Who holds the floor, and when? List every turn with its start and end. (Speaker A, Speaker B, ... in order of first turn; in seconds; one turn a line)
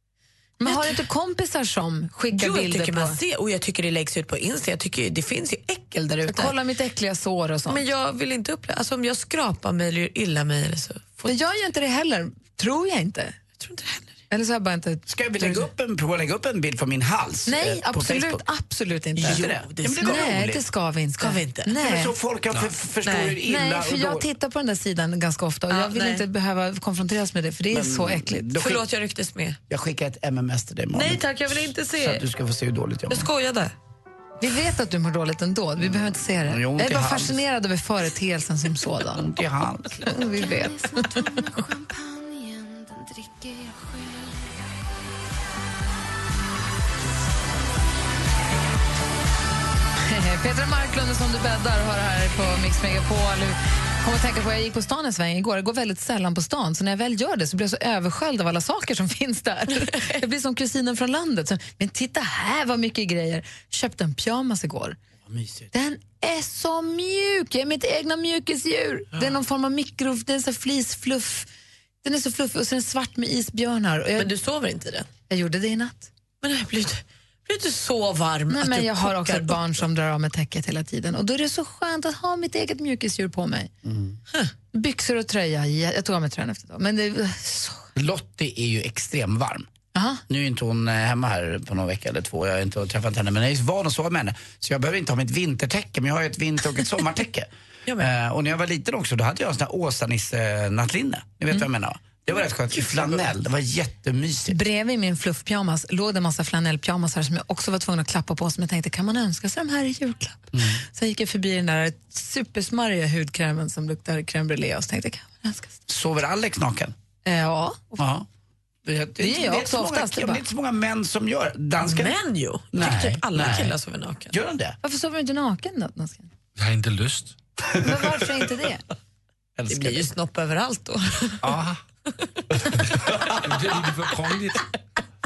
Speaker A: 0.6-3.2
Speaker B: 0.6-1.0
Speaker B: 2.3-6.6
Speaker A: 6.2-7.8
Speaker B: 7.7-11.4
Speaker A: 11.2-13.4
Speaker B: 13.6-14.2
Speaker A: 14.3-15.7
Speaker C: 15.1-18.4
Speaker A: 17.5-19.5
Speaker B: 19.2-20.6
Speaker C: 19.2-20.6
Speaker A: 20.0-22.1
Speaker B: 21.2-21.8
Speaker C: 21.8-24.3
Speaker B: 23.0-23.4
Speaker A: 23.4-28.5
Speaker B: 25.7-26.2
Speaker C: 27.7-28.8
Speaker B: 28.5-29.6
Speaker C: 29.7-33.3
Speaker B: 30.9-32.2
Speaker B: 33.1-33.7
Speaker A: 34.4-39.2
Speaker C: 35.8-37.4
Speaker C: 39.1-40.2
Speaker A: 40.0-41.5
Speaker A: 50.1-65.0
Speaker C: 65.3-65.7
Speaker A: 65.7-71.5
Speaker A: 72.0-74.3
Speaker B: 74.2-75.1
Speaker A: 75.3-76.1
Speaker B: 76.4-79.7
Speaker A: 78.5-83.7
Speaker C: 83.8-84.2
Speaker A: 84.7-87.9
Speaker C: 88.0-89.7
Speaker A: 89.9-90.2
Speaker C: 90.3-104.6
Speaker B: 102.8-103.2
Speaker A: 104.5-115.8
Speaker C: 110.5-110.8
Speaker C: 115.9-116.9
Speaker A: 117.2-118.0
Speaker C: 118.0-118.3
Speaker C: 118.8-122.2
Speaker A: 119.2-120.4
Speaker B: 121.8-124.3
Speaker C: 122.7-123.8
Speaker C: 124.3-124.8
Speaker A: 124.8-126.3
Speaker D: 126.6-127.4
Speaker A: 127.8-128.8
Speaker B: 129.7-131.4
Speaker D: 131.4-131.8
Speaker D: 133.1-134.6